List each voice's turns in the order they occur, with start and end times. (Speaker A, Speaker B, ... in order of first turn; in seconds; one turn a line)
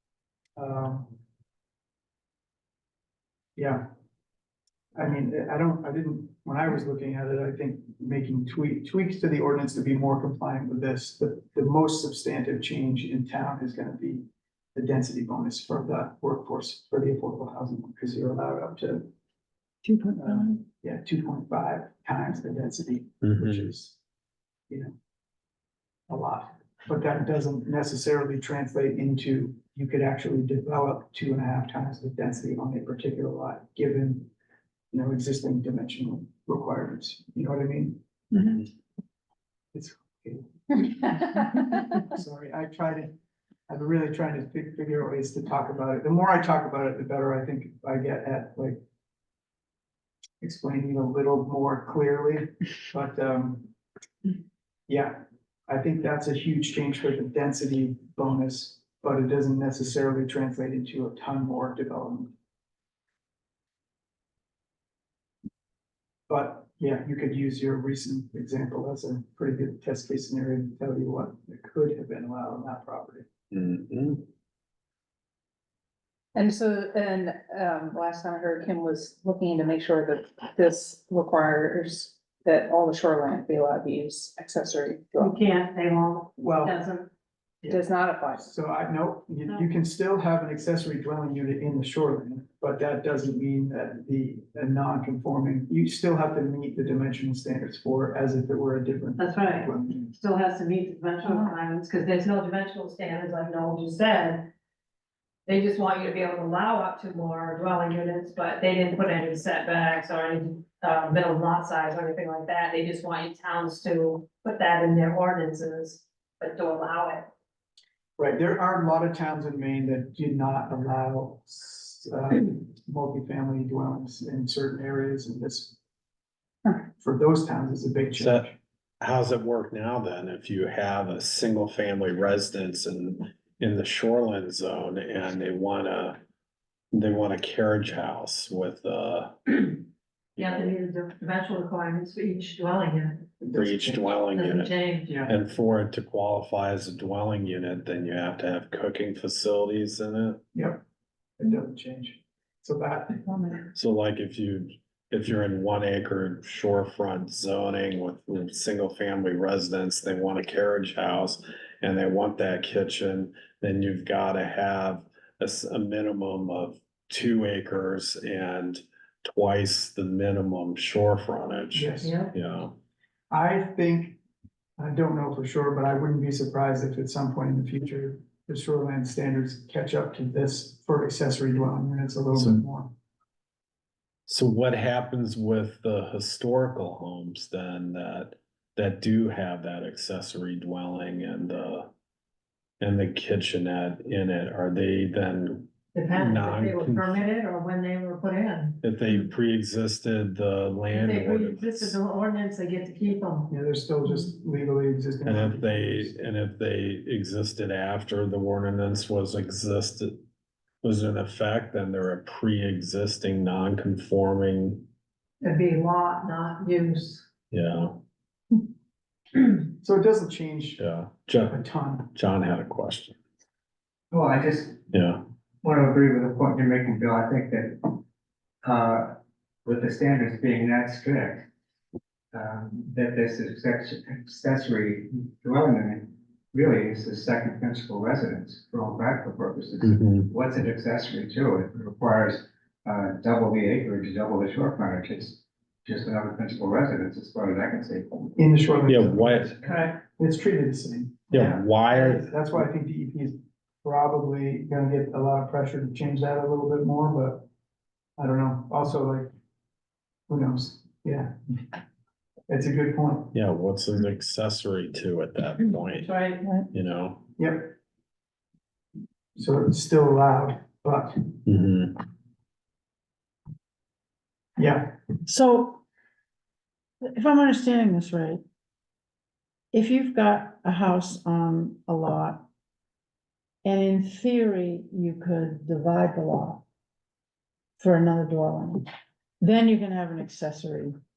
Speaker A: 0.6-1.2
Speaker A: 3.6-3.8
Speaker A: 4.9-19.1
Speaker B: 19.8-20.6
Speaker A: 20.1-24.0
Speaker C: 23.2-23.7
Speaker A: 24.7-24.9
Speaker A: 26.1-34.3
Speaker A: 34.9-38.7
Speaker A: 39.7-43.2
Speaker A: 43.7-48.8
Speaker A: 50.4-53.7
Speaker A: 54.9-62.3
Speaker A: 66.3-73.3
Speaker C: 73.5-74.3
Speaker D: 76.3-85.4
Speaker E: 85.2-87.1
Speaker A: 86.4-86.8
Speaker D: 87.7-88.5
Speaker A: 88.3-100.1
Speaker E: 99.2-104.5
Speaker B: 101.2-101.6
Speaker E: 105.5-117.3
Speaker A: 118.2-125.8
Speaker A: 126.8-128.6
Speaker C: 128.2-128.5
Speaker C: 129.0-136.2
Speaker C: 136.9-139.8
Speaker E: 140.3-143.2
Speaker C: 140.4-140.7
Speaker A: 143.4-144.2
Speaker C: 143.5-144.7
Speaker E: 144.3-145.1
Speaker A: 145.1-145.3
Speaker C: 145.2-150.4
Speaker A: 150.5-150.8
Speaker A: 151.4-153.3
Speaker B: 153.2-153.6
Speaker C: 153.7-172.7
Speaker A: 171.7-172.2
Speaker E: 172.0-172.3
Speaker A: 173.3-174.2
Speaker A: 174.8-182.9
Speaker C: 182.3-182.6
Speaker C: 184.3-191.9
Speaker C: 192.8-197.2
Speaker E: 195.9-198.8
Speaker C: 198.8-202.0
Speaker E: 200.9-203.5
Speaker A: 203.5-206.1
Speaker C: 205.2-210.2
Speaker C: 210.8-214.8
Speaker E: 215.4-217.3
Speaker C: 217.5-218.0
Speaker A: 219.7-220.8
Speaker C: 220.8-223.2
Speaker A: 221.5-222.1
Speaker F: 224.1-224.8
Speaker C: 224.9-225.2
Speaker F: 225.6-228.0
Speaker F: 228.6-231.5
Speaker F: 232.3-248.3
Speaker C: 239.8-240.3
Speaker A: 248.4-257.5
Speaker C: 248.9-249.5
Speaker C: 251.3-252.3
Speaker A: 258.2-259.3
Speaker A: 260.3-261.4
Speaker A: 262.5-263.3
Speaker C: 263.3-266.1
Speaker E: 266.0-266.4
Speaker C: 266.7-267.2
Speaker A: 267.4-267.8
Speaker A: 269.4-271.3
Speaker C: 271.5-272.0
Speaker A: 274.6-275.0
Speaker B: 275.2-275.8
Speaker B: 277.0-278.4
Speaker B: 279.7-282.5
Speaker B: 283.6-286.6
Speaker B: 287.8-288.9
Speaker B: 289.4-290.9